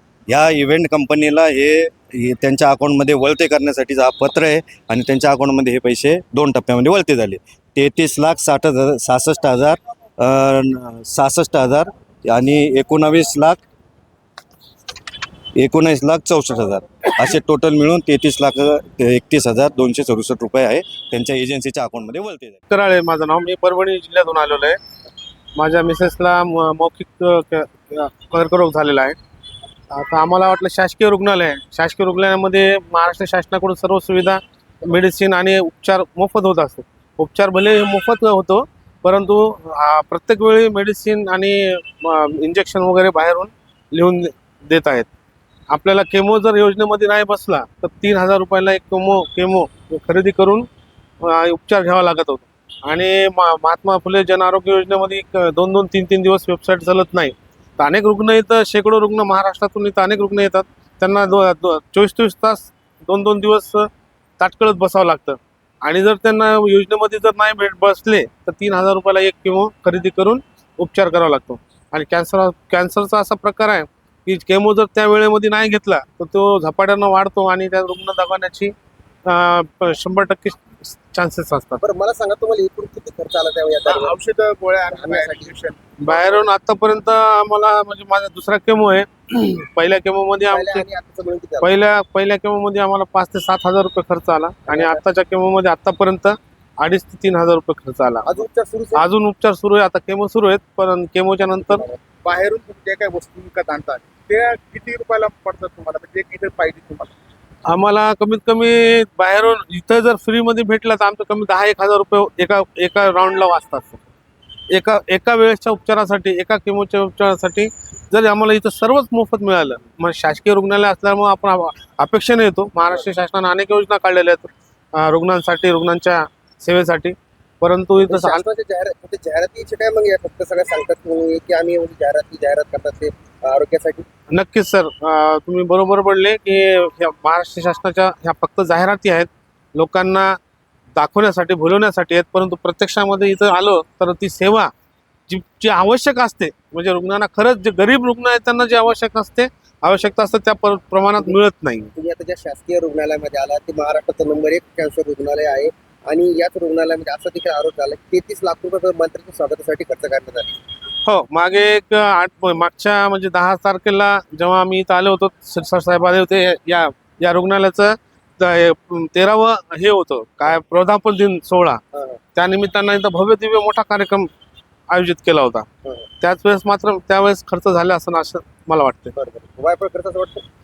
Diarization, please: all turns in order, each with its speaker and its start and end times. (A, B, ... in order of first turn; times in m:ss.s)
0:00.3-0:13.6 A
0:15.6-0:22.6 A
0:22.7-0:24.8 B
0:25.6-0:29.2 B
0:29.9-0:45.1 B
0:45.7-0:50.7 B
0:51.2-1:18.7 B
1:19.2-1:21.8 B
1:21.8-1:24.2 C
1:23.8-1:26.3 D
1:24.9-1:25.6 C
1:26.0-1:30.8 B
1:30.5-1:31.7 C
1:31.6-1:38.3 B
1:34.7-1:35.0 C
1:38.2-1:39.0 C
1:38.9-1:41.8 B
1:42.2-1:47.1 D
1:47.7-1:54.0 B
1:54.7-2:08.4 B
2:08.1-2:14.1 C
2:14.3-2:20.4 B
2:21.0-2:24.7 B
2:25.3-2:31.9 B
2:31.9-2:40.6 C
2:41.0-2:51.8 B
2:51.9-2:52.2 C
2:52.3-2:54.3 B
2:54.9-2:55.7 B
2:56.2-2:59.1 B
2:59.2-3:00.4 C